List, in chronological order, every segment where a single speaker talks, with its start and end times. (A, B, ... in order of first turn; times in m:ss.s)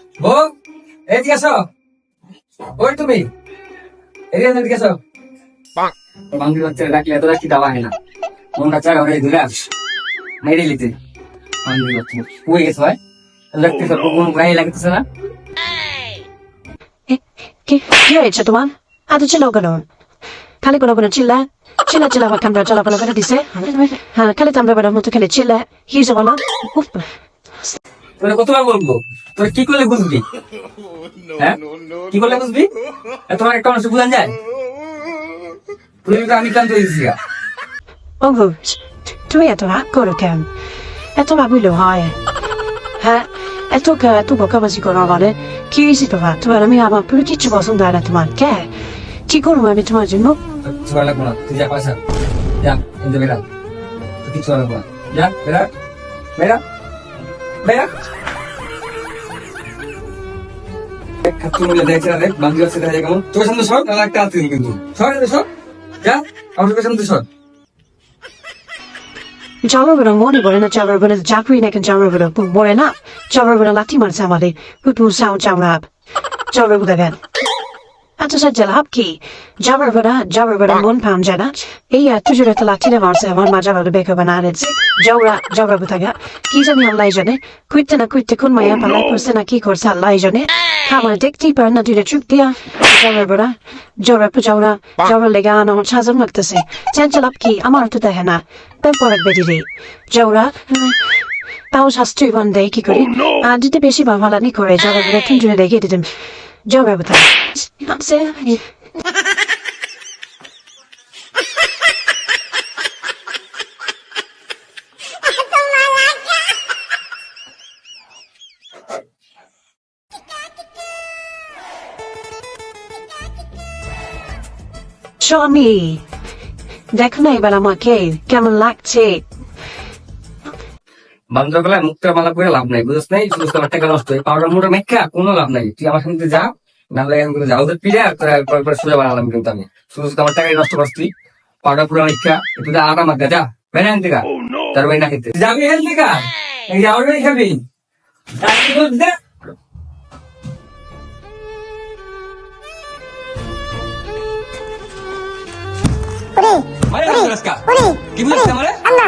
0:00.2-0:00.5 A
0:01.1-0:01.7 A
0:02.8-0:03.3 A
0:04.3-0:05.0 A
0:06.3-0:07.9 A
0:08.6-0:09.7 A
0:10.4-0:10.9 A
0:11.6-0:13.0 A
0:13.5-0:15.0 A
0:17.1-0:19.8 B
0:20.6-0:27.1 B
0:28.2-0:30.2 A
0:31.4-0:32.7 A
0:33.3-0:34.4 A
0:36.0-0:37.2 A
0:38.2-0:40.5 B
0:41.2-0:42.2 B
0:43.0-0:48.7 B
0:49.3-0:50.4 B
0:50.6-0:52.0 A
0:52.6-0:53.4 A
0:54.2-0:55.7 A
0:56.4-0:56.6 A
0:57.6-0:57.9 A
1:01.2-1:05.5 A
1:06.0-1:07.2 A
1:09.6-1:15.9 B
1:16.5-1:17.2 B
1:18.2-1:41.2 B
1:41.7-1:46.1 B
1:46.7-1:48.6 B
2:05.2-2:06.0 B
2:06.9-2:09.2 B
2:11.3-2:21.1 A
2:21.6-2:27.6 A
2:28.4-2:29.2 A
2:36.8-2:38.8 A